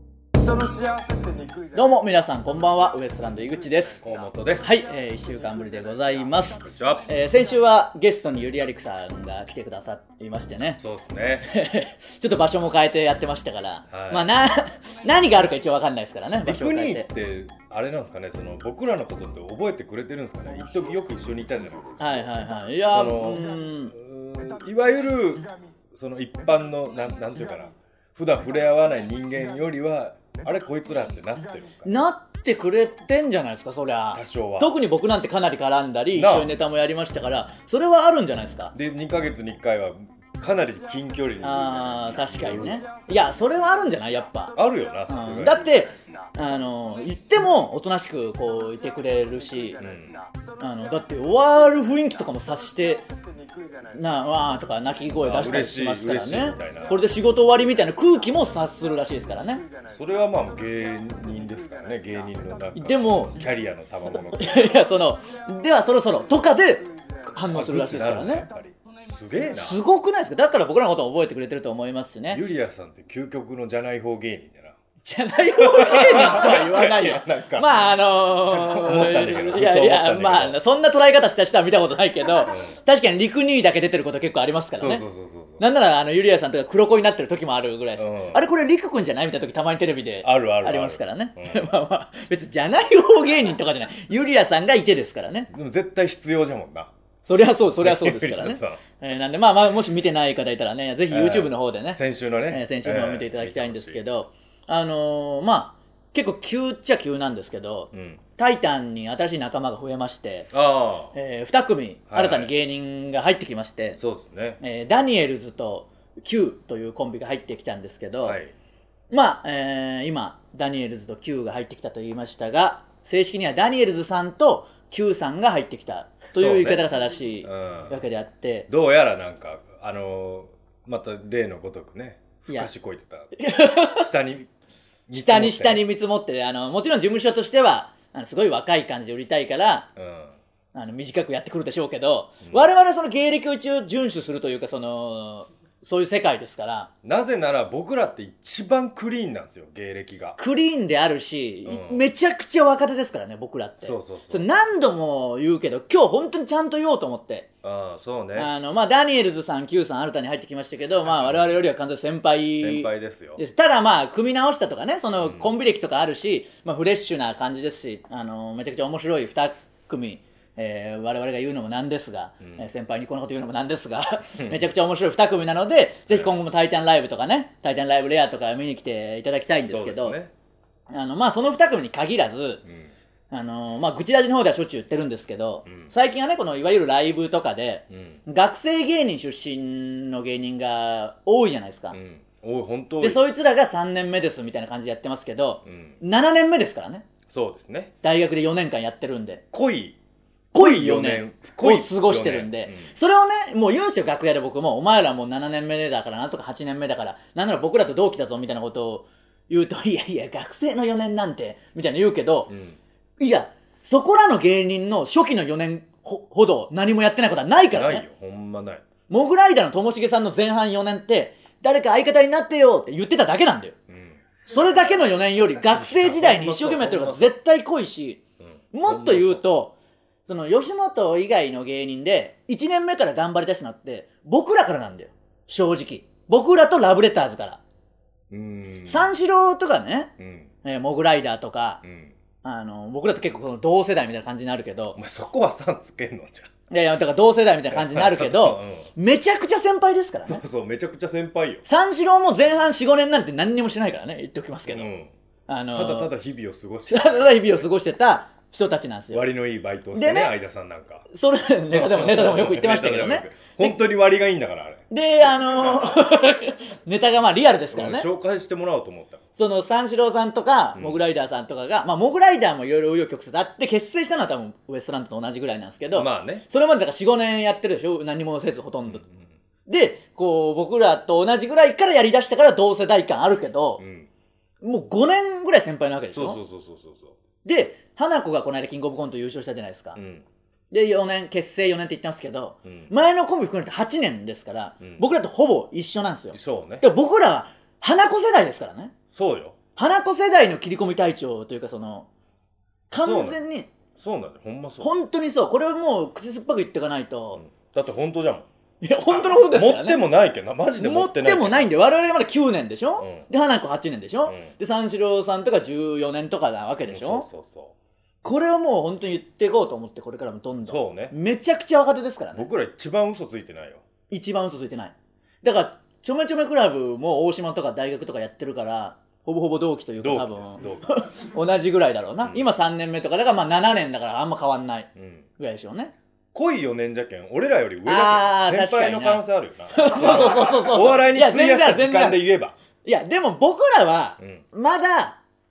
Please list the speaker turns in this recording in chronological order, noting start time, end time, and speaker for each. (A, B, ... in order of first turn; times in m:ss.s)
0:00.4-0:02.1 A
0:01.7-0:04.0 B
0:03.2-0:06.5 A
0:04.0-0:04.8 C
0:04.6-0:10.8 B
0:06.6-0:07.1 C
0:10.8-0:11.5 C
0:11.4-0:17.1 B
0:13.9-0:14.3 C
0:16.4-0:22.3 C
0:22.0-0:24.0 B
0:22.8-0:31.9 C
0:31.8-0:38.7 B
0:34.1-0:34.8 C
0:36.1-0:36.6 C
0:38.7-0:42.8 C
0:41.4-0:44.6 B
0:42.6-0:46.5 A
0:44.6-0:45.6 C
0:45.1-0:49.8 B
0:48.6-0:54.3 A
0:49.8-0:50.2 C
0:50.6-0:53.0 B
0:53.9-0:59.6 B
0:55.2-0:57.1 C
0:57.8-1:02.7 A
0:59.9-1:04.7 C
1:02.8-1:03.4 B
1:04.3-1:08.5 B
1:06.2-1:07.4 A
1:07.5-1:08.5 C
1:08.2-1:08.8 A
1:09.1-1:09.8 C
1:09.5-1:12.4 B
1:12.3-1:14.8 C
1:15.0-1:25.0 B
1:15.6-1:20.6 C
1:22.5-1:22.8 C
1:24.8-1:25.6 C
1:25.6-1:35.5 B
1:28.0-1:28.4 C
1:30.2-1:31.7 C
1:35.5-1:36.9 C
1:37.2-1:50.5 B
1:37.8-1:38.8 C
1:41.1-1:44.0 C
1:47.9-1:48.2 C
1:50.5-1:51.2 C
1:51.1-1:54.0 B
1:52.1-1:52.5 C
1:54.0-1:54.6 C
1:54.6-1:58.4 B
1:58.2-1:58.5 C
1:59.1-2:08.7 B
2:06.3-2:08.0 C
2:08.7-2:14.5 C
2:13.4-2:14.1 B
2:15.1-2:15.8 C
2:15.1-2:19.9 B
2:20.0-2:20.4 C
2:20.7-2:26.9 B
2:27.0-2:30.4 C
2:30.4-2:37.5 B
2:31.7-2:32.0 C
2:33.8-2:34.5 C
2:37.6-2:38.5 C
2:38.4-3:00.2 B
2:41.1-2:41.6 C
2:42.6-2:43.4 C
2:45.2-2:45.5 C
2:56.1-2:56.4 C
2:59.6-3:00.3 C
3:00.9-3:02.6 B
3:02.7-3:02.9 C
3:03.3-3:12.0 B
3:05.7-3:05.9 C
3:07.9-3:08.2 C
3:11.9-3:13.2 C
3:13.0-3:17.1 B
3:15.6-3:16.0 C
3:17.3-3:17.9 C
3:18.0-3:19.4 B
3:19.5-3:20.0 C
3:20.5-3:22.9 C
3:20.5-3:32.5 B
3:32.5-3:32.8 C
3:33.2-3:38.0 B
3:37.7-3:38.8 C
3:39.1-3:43.8 B
3:43.9-3:47.4 C
3:44.5-3:48.2 B
3:48.4-3:49.4 C
3:48.7-3:49.8 B
3:50.3-3:57.6 B
3:58.3-3:59.1 C
3:58.9-4:00.1 B
4:00.2-4:00.5 C
4:00.6-4:01.8 B
4:01.8-4:02.2 C
4:02.4-4:05.0 B
4:05.0-4:06.5 C
4:06.7-4:10.4 B
4:07.7-4:08.9 C
4:10.2-4:11.6 C
4:11.6-4:14.9 B
4:14.7-4:15.1 C
4:15.5-4:16.1 B
4:15.7-4:17.6 C
4:16.9-4:19.2 B
4:19.1-4:21.1 C
4:19.9-4:20.3 B
4:21.1-4:23.8 B
4:21.7-4:24.8 C
4:24.9-4:28.1 B
4:25.7-4:26.0 C
4:27.7-4:29.2 C
4:29.4-4:39.0 B
4:30.8-4:31.0 C
4:35.9-4:36.5 C
4:38.9-4:39.3 C
4:39.7-4:43.8 B
4:43.8-4:44.1 C
4:44.6-4:46.4 B
4:46.1-4:47.2 C
4:47.4-4:50.0 B
4:50.0-4:50.3 C
4:50.7-4:58.9 B
4:52.6-4:52.9 C
4:54.8-4:55.1 C
4:56.3-4:56.9 C
4:59.1-4:59.6 C
4:59.8-5:02.1 B
5:02.9-5:03.7 B
5:03.0-5:03.4 C
5:03.9-5:04.9 C
5:04.8-5:07.4 B
5:07.4-5:08.5 C
5:08.8-5:10.0 B
5:09.1-5:11.9 C
5:10.8-5:17.3 B
5:13.0-5:13.3 C
5:14.3-5:14.5 C
5:16.9-5:17.7 C
5:18.2-5:22.5 B
5:20.7-5:21.2 C
5:22.4-5:23.8 C
5:24.1-5:35.9 B
5:30.0-5:30.9 C
5:32.2-5:32.5 C
5:35.0-5:35.3 C
5:36.3-5:42.6 C
5:37.9-5:42.2 B
5:42.8-5:45.2 B